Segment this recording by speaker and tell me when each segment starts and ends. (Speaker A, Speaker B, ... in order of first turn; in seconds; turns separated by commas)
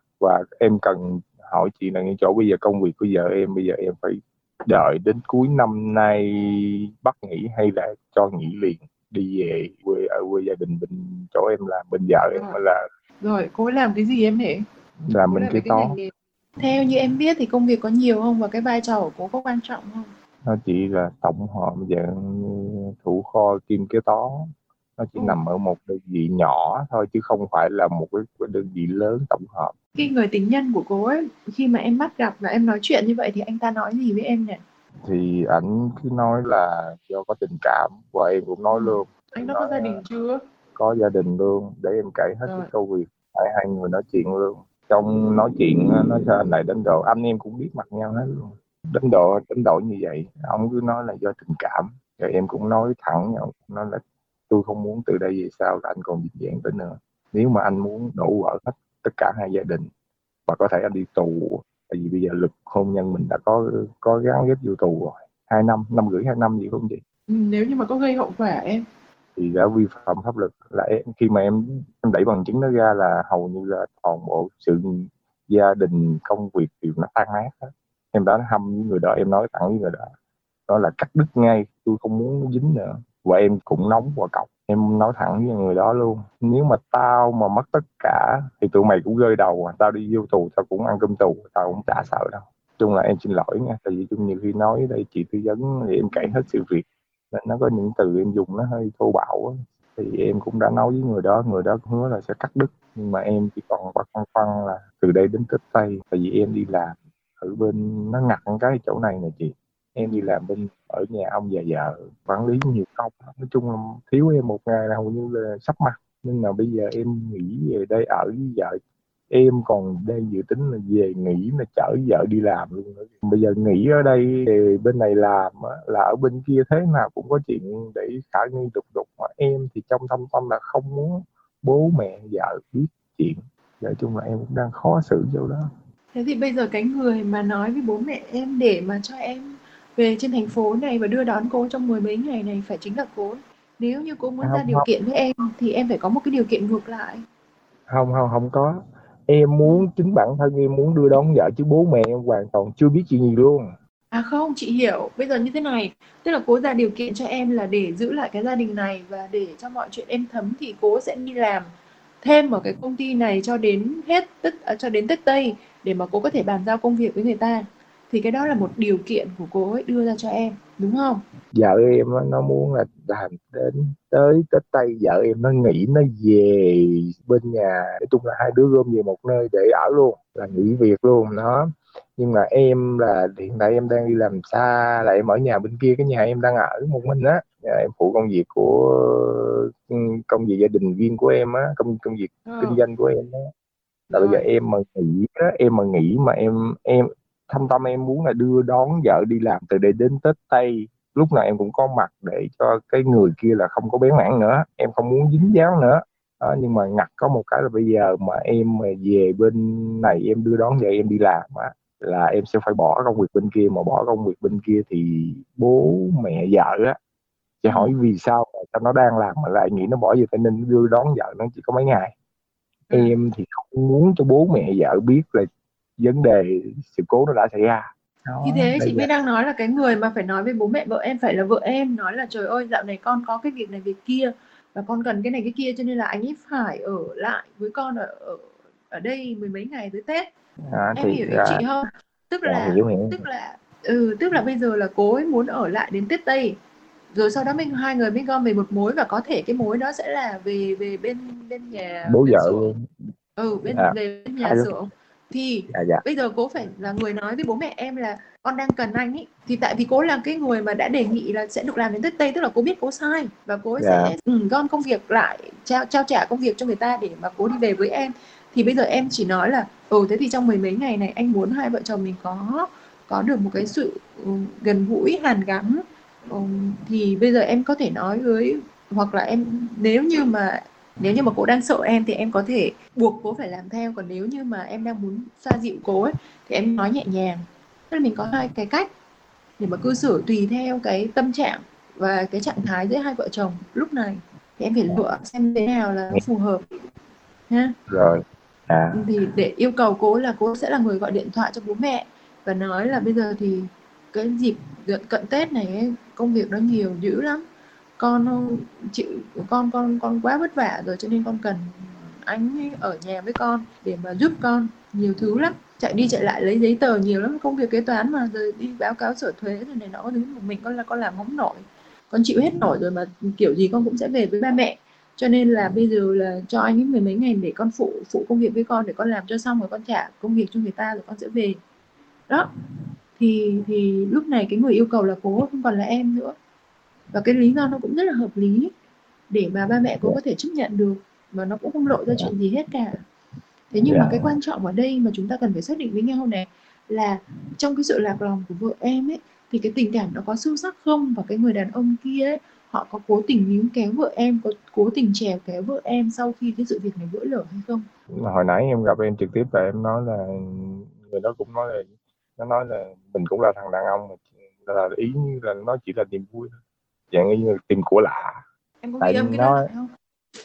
Speaker A: 0.2-12.8, Speaker B: 12.3-12.6, Speaker B: 13.2-14.7, Speaker A: 15.1-15.9, Speaker B: 15.2-20.1, Speaker A: 20.4-24.4, Speaker A: 25.0-29.7, Speaker B: 29.9-34.6, Speaker A: 35.0-40.0, Speaker B: 38.7-40.4, Speaker A: 40.7-59.9, Speaker B: 42.5-42.7, Speaker A: 60.5-67.0, Speaker B: 67.3-68.8, Speaker A: 69.3-80.0, Speaker A: 80.7-118.8, Speaker B: 96.1-96.5, Speaker B: 110.0-110.4, Speaker A: 119.3-135.6, Speaker B: 136.1-147.2, Speaker A: 144.4-144.8, Speaker A: 147.9-153.7, Speaker B: 154.1-161.7, Speaker B: 162.2-171.2, Speaker A: 171.5-193.4, Speaker B: 192.4-192.8, Speaker B: 194.1-194.5, Speaker A: 194.1-216.9, Speaker A: 217.6-222.1, Speaker B: 217.7-218.0, Speaker B: 222.9-223.1, Speaker A: 222.9-225.4, Speaker A: 226.0-229.1, Speaker B: 228.4-240.3, Speaker A: 240.7-241.6, Speaker B: 240.9-246.6, Speaker A: 242.4-243.2, Speaker B: 247.1-252.7, Speaker A: 252.0-252.8, Speaker B: 253.4-288.9, Speaker A: 253.7-254.7, Speaker A: 255.7-256.0, Speaker A: 263.8-264.1, Speaker B: 289.6-296.6, Speaker B: 297.5-297.7, Speaker A: 297.9-299.0, Speaker B: 298.9-307.4, Speaker B: 308.0-331.6, Speaker B: 333.2-336.4, Speaker B: 337.1-338.7, Speaker B: 339.3-343.0, Speaker A: 341.9-342.3, Speaker B: 343.7-357.9, Speaker A: 343.8-344.3, Speaker A: 358.1-366.5, Speaker A: 367.1-368.4, Speaker B: 368.8-369.9, Speaker A: 369.0-369.6